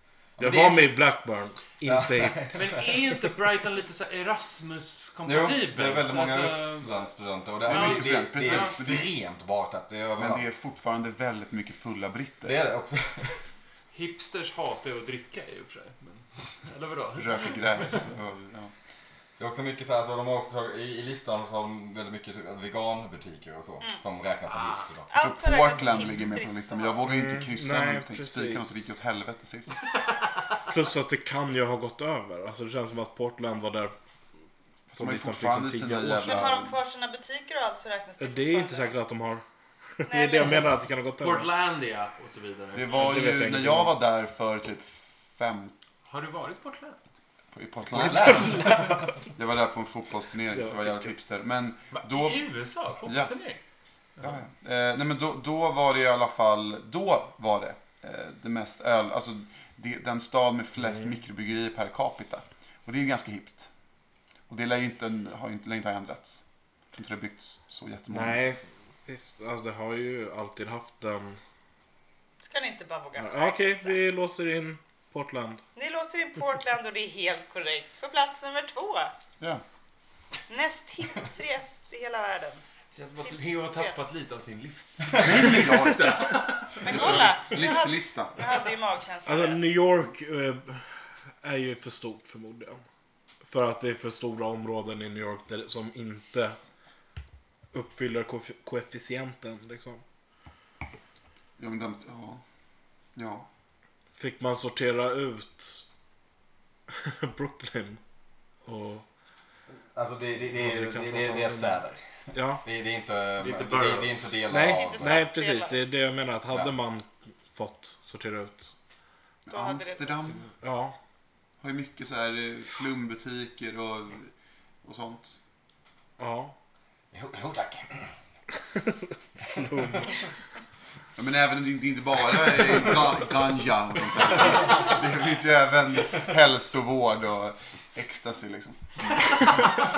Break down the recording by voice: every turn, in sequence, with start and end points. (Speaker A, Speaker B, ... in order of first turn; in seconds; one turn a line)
Speaker A: 0.4-0.9
Speaker B: 0.4-2.9
Speaker A: 1.8-2.9
Speaker C: 2.5-7.0
Speaker A: 5.2-10.5
Speaker D: 7.7-9.1
Speaker C: 7.7-8.8
Speaker D: 10.2-12.6
Speaker A: 12.4-13.4
Speaker C: 13.9-18.0
Speaker D: 17.2-18.7
Speaker A: 19.4-25.1
Speaker C: 24.5-24.9
Speaker E: 25.1-27.0
Speaker D: 25.1-29.8
Speaker B: 27.0-28.9
Speaker B: 30.7-33.9
Speaker D: 34.9-36.8
Speaker B: 34.9-36.5
Speaker E: 36.2-38.9
Speaker B: 38.2-39.4
Speaker B: 40.0-41.5
Speaker E: 40.1-40.6
Speaker C: 41.2-43.0
Speaker D: 42.7-45.7
Speaker B: 42.9-43.9
Speaker C: 46.0-47.0
Speaker D: 47.5-48.8
Speaker A: 47.9-49.1
Speaker B: 48.0-49.1
Speaker D: 49.3-52.4
Speaker B: 50.5-51.1
Speaker C: 51.9-53.6
Speaker D: 53.0-53.3
Speaker D: 54.2-63.7
Speaker D: 64.5-68.4
Speaker B: 68.1-71.4
Speaker E: 72.4-74.0
Speaker B: 73.2-75.6
Speaker E: 75.8-79.1
Speaker E: 80.5-82.6
Speaker C: 82.9-87.3
Speaker E: 83.2-84.0
Speaker D: 85.2-88.4
Speaker E: 86.8-89.6
Speaker B: 89.2-92.8
Speaker B: 93.4-96.6
Speaker B: 97.7-100.0
Speaker D: 101.6-102.4
Speaker D: 103.1-103.5
Speaker B: 104.2-105.8
Speaker B: 106.9-108.0
Speaker B: 108.6-109.0
Speaker A: 109.9-115.2
Speaker B: 110.4-112.6
Speaker C: 113.4-114.4
Speaker B: 114.5-118.7
Speaker E: 114.7-115.8
Speaker D: 119.5-120.5
Speaker E: 119.5-120.5
Speaker B: 120.5-120.9
Speaker D: 121.6-125.4
Speaker B: 126.2-126.5
Speaker A: 127.1-128.1
Speaker B: 129.6-130.1
Speaker D: 131.2-139.5